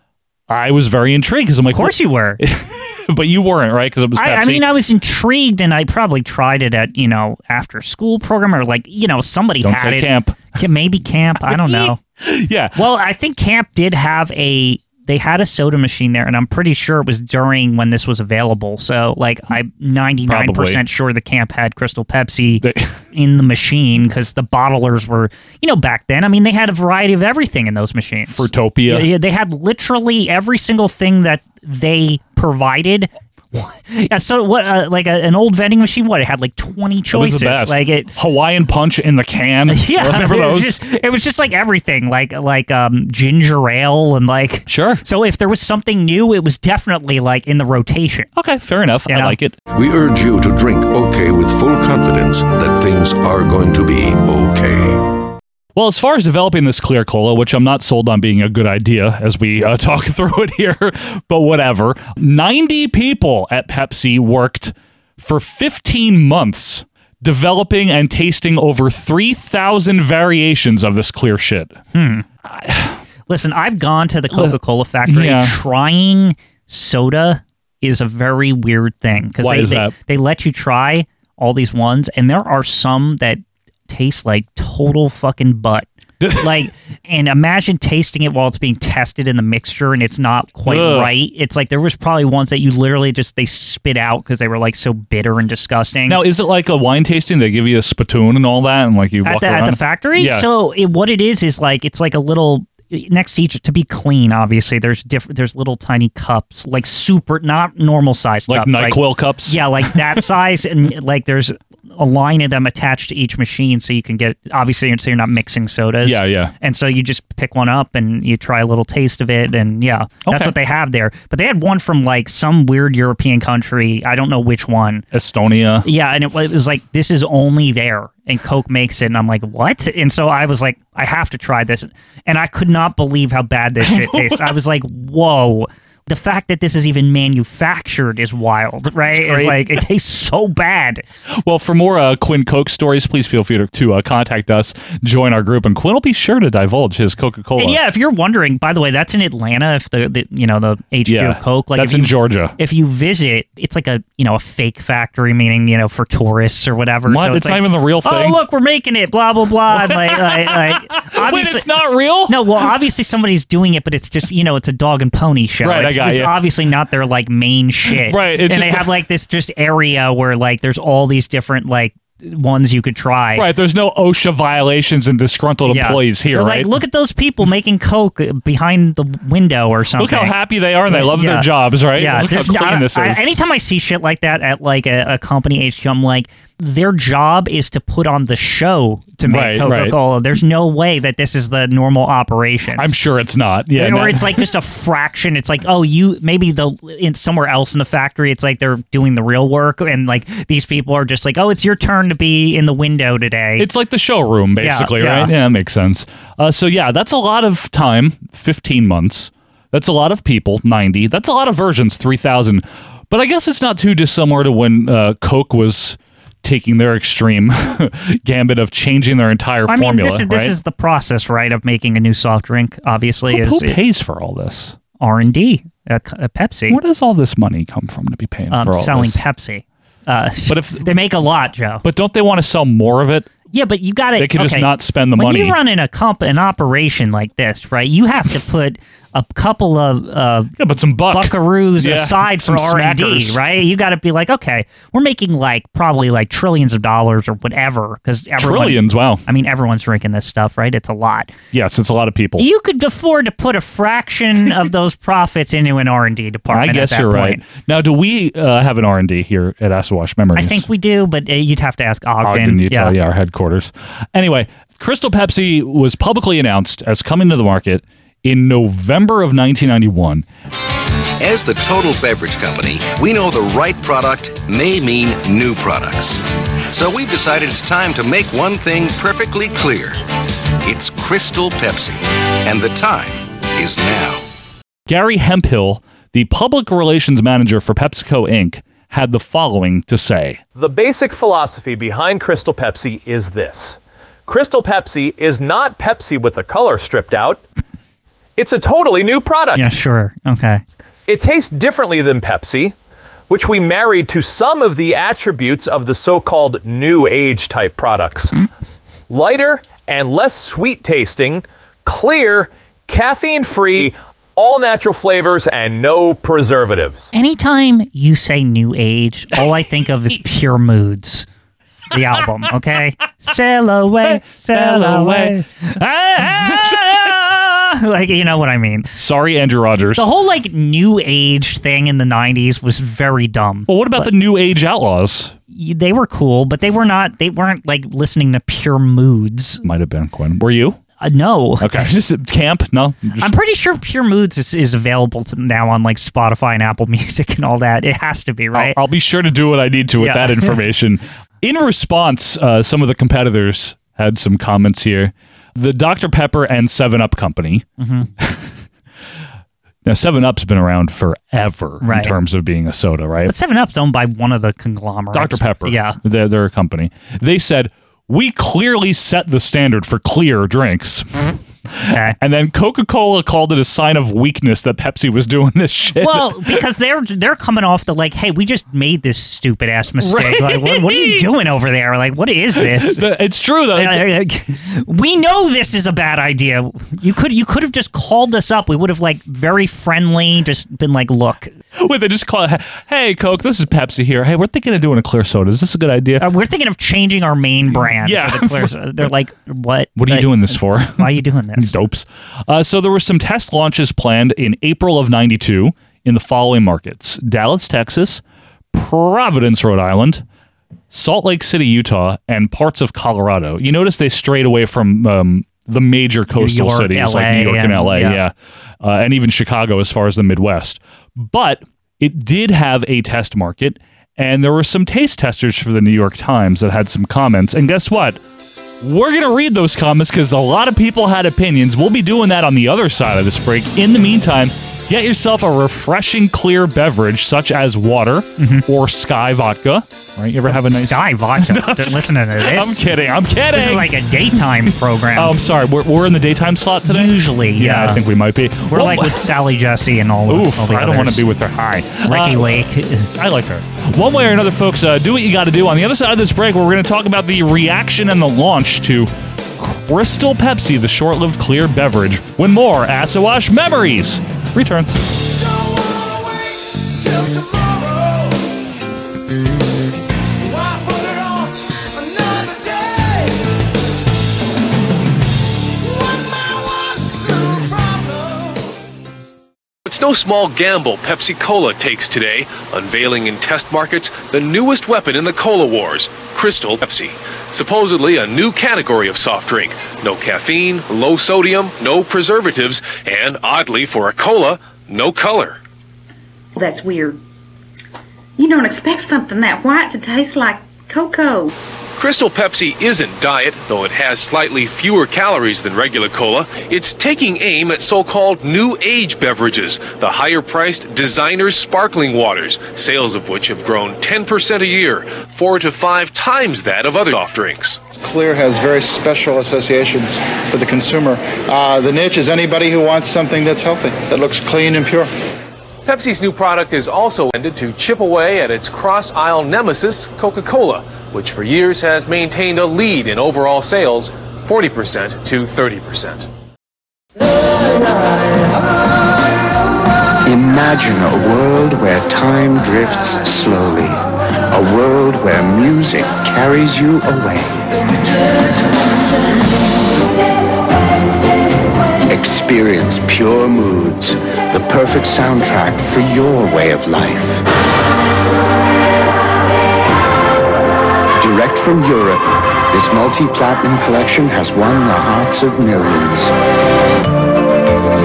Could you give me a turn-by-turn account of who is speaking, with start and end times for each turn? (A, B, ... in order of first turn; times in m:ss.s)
0:00.5-0:04.6 A
0:01.7-0:02.4 B
0:04.2-0:12.0 B
0:09.6-0:10.5 A
0:11.4-0:12.8 A
0:12.8-0:38.1 B
0:20.3-0:20.8 A
0:22.6-0:23.0 A
0:28.3-0:29.1 A
0:37.1-0:40.8 A
0:39.7-0:48.3 B
0:44.7-0:45.0 A
0:48.4-0:49.6 A
0:49.1-0:49.4 B
0:49.7-0:55.1 C
0:55.8-1:11.8 A
1:11.9-1:12.3 B
1:12.4-1:13.0 A
1:13.3-1:36.2 B
1:14.3-1:15.6 A
1:19.4-1:19.9 A
1:26.2-1:26.6 A
1:30.7-1:31.1 A
1:36.1-1:40.5 A
1:39.2-2:05.0 B
1:48.5-1:50.2 A
1:56.0-1:56.5 A
2:00.3-2:00.6 A
2:05.1-2:05.9 A
2:05.8-2:21.0 B
2:13.8-2:14.5 A
2:19.1-2:19.8 A
2:21.4-2:27.8 A
2:27.6-2:41.7 B
2:31.1-2:32.6 A
2:37.1-2:38.4 A
2:39.7-2:42.7 A
2:42.3-2:53.5 B
2:45.6-2:46.4 A
2:47.9-2:48.9 A
2:53.4-2:56.8 A
2:55.7-3:00.4 B
3:00.0-3:03.3 A
3:00.9-3:12.9 B
3:09.2-3:10.0 A
3:12.8-3:14.5 A
3:13.8-3:23.7 B
3:23.6-3:40.6 A
3:24.6-3:25.3 B
3:39.7-3:43.8 B
3:43.3-3:44.8 A
3:45.0-3:46.8 B
3:46.7-3:49.2 A
3:48.5-3:51.8 B
3:50.5-3:50.9 A
3:51.8-3:53.3 A
3:53.5-4:00.5 B
3:54.2-3:55.6 A
4:00.6-4:03.4 A
4:01.1-4:11.3 B
4:08.4-4:09.2 A
4:11.5-4:12.5 A
4:12.4-4:17.4 B
4:16.5-4:20.7 A
4:20.4-4:23.0 B
4:22.2-4:30.3 A
4:31.2-4:40.0 D
4:40.6-4:44.2 D
4:44.9-4:50.4 A
4:50.6-4:57.4 E
4:58.4-4:59.7 E
4:59.6-5:00.6 B
5:01.1-5:02.7 E
5:03.3-5:08.4 E
5:09.1-5:17.1 E
5:17.1-5:21.3 B
5:21.9-5:25.5 B
5:24.0-5:27.1 A
5:26.2-5:28.9 B
5:28.9-5:30.1 A
5:30.0-5:34.1 B
5:33.7-5:35.4 A
5:35.5-5:39.6 B
5:39.6-5:40.8 A
5:41.0-5:41.9 B
5:41.6-5:43.3 A
5:43.2-5:48.8 B
5:48.5-5:57.7 A
5:50.0-5:50.6 B
5:57.8-5:58.1 B
5:58.2-5:58.6 A
5:59.8-6:03.3 A
6:01.8-6:02.1 B
6:03.3-6:06.0 B
6:05.1-6:16.6 A
6:11.9-6:12.2 B
6:16.0-6:23.0 B
6:20.0-6:21.3 A
6:22.6-6:24.1 A
6:23.8-6:31.5 B
6:31.8-6:36.2 A
6:36.2-6:41.7 B
6:37.8-6:39.1 A
6:40.0-6:48.2 A
6:48.7-6:50.2 A
6:50.9-7:08.2 A
6:56.4-6:58.2 B
7:08.8-7:29.3 A
7:18.4-7:18.6 B
7:20.5-7:22.9 B
7:23.5-7:25.3 B
7:26.9-7:28.0 B
7:28.7-7:31.2 B
7:30.3-7:45.0 A
7:32.1-7:33.1 B
7:59.9-8:15.6 F
8:16.6-8:17.2 G
8:18.4-8:21.5 G
8:22.0-8:37.8 F
8:37.9-8:45.1 H
8:45.8-8:56.3 F
9:00.2-9:04.0 I
9:04.5-9:07.8 I
9:12.1-9:17.4 I
9:21.2-9:26.3 I